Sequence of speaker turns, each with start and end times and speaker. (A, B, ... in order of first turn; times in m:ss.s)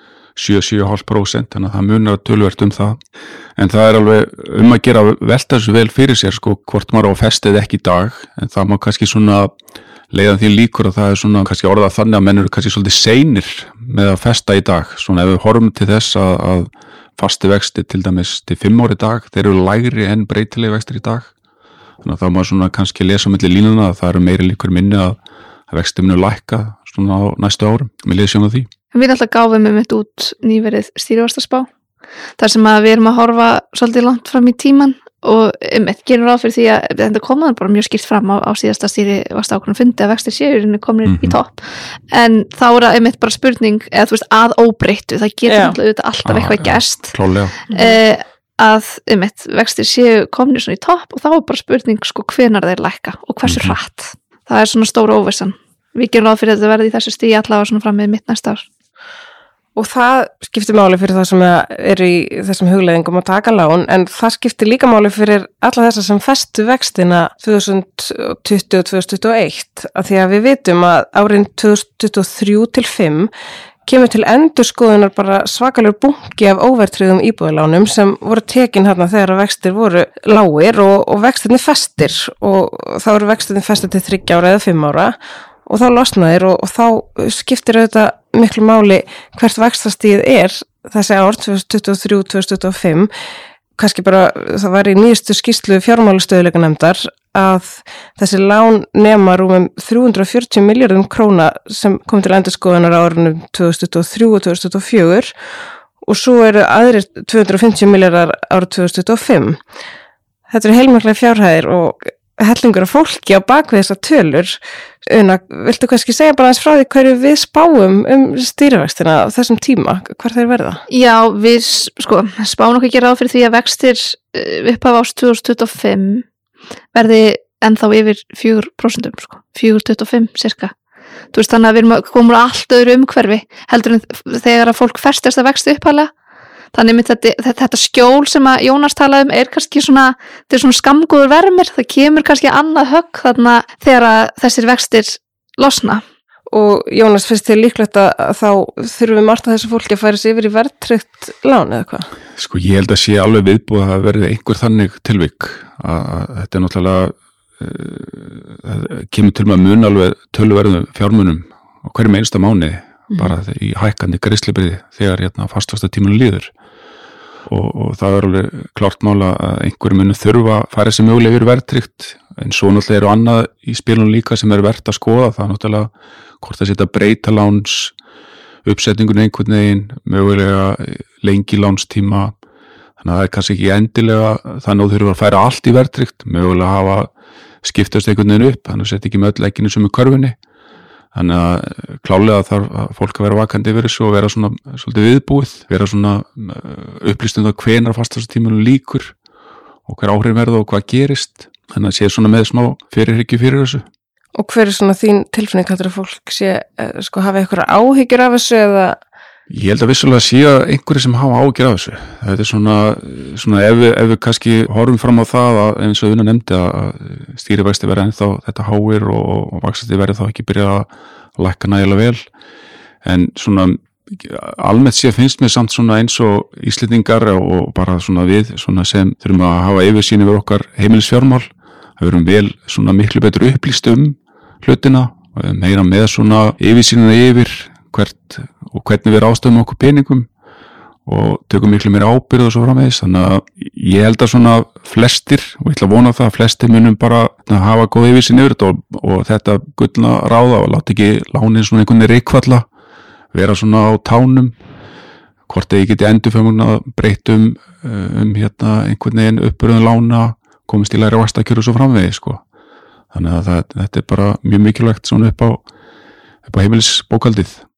0:00.4-0:03.0 A
0:03.6-0:09.5 A
0:10.1-0:21.3 A
0:22.0-0:25.2 A
0:25.7-0:28.7 A
0:28.9-0:31.7 B
0:32.4-0:47.2 B
0:41.1-0:41.4 A
0:45.5-0:45.8 C
0:46.2-0:47.6 A
0:47.7-0:58.7 B
0:47.7-0:48.0 C
0:53.4-0:53.8 A
0:59.8-1:13.3 C
1:13.9-1:25.2 C
1:25.7-1:33.1 C
1:33.8-1:45.3 C
1:46.0-1:49.6 C
1:50.5-2:00.8 C
2:00.9-2:06.3 B
2:06.9-2:10.7 B
2:11.3-2:16.1 B
2:16.7-2:26.0 B
2:26.5-2:32.1 C
2:32.4-2:46.5 A
2:47.5-2:55.9 A
2:56.4-2:58.0 A
2:58.7-3:02.3 A
3:03.0-3:07.1 A
3:07.6-3:10.4 A
3:11.2-3:19.2 A
3:19.9-3:23.8 A
3:24.4-3:29.0 C
3:29.5-3:42.2 A
3:43.0-4:00.3 A
4:01.1-4:12.6 A
4:13.3-4:14.6 A
4:15.5-4:22.4 A
4:23.1-4:25.6 A
4:26.5-4:27.6 A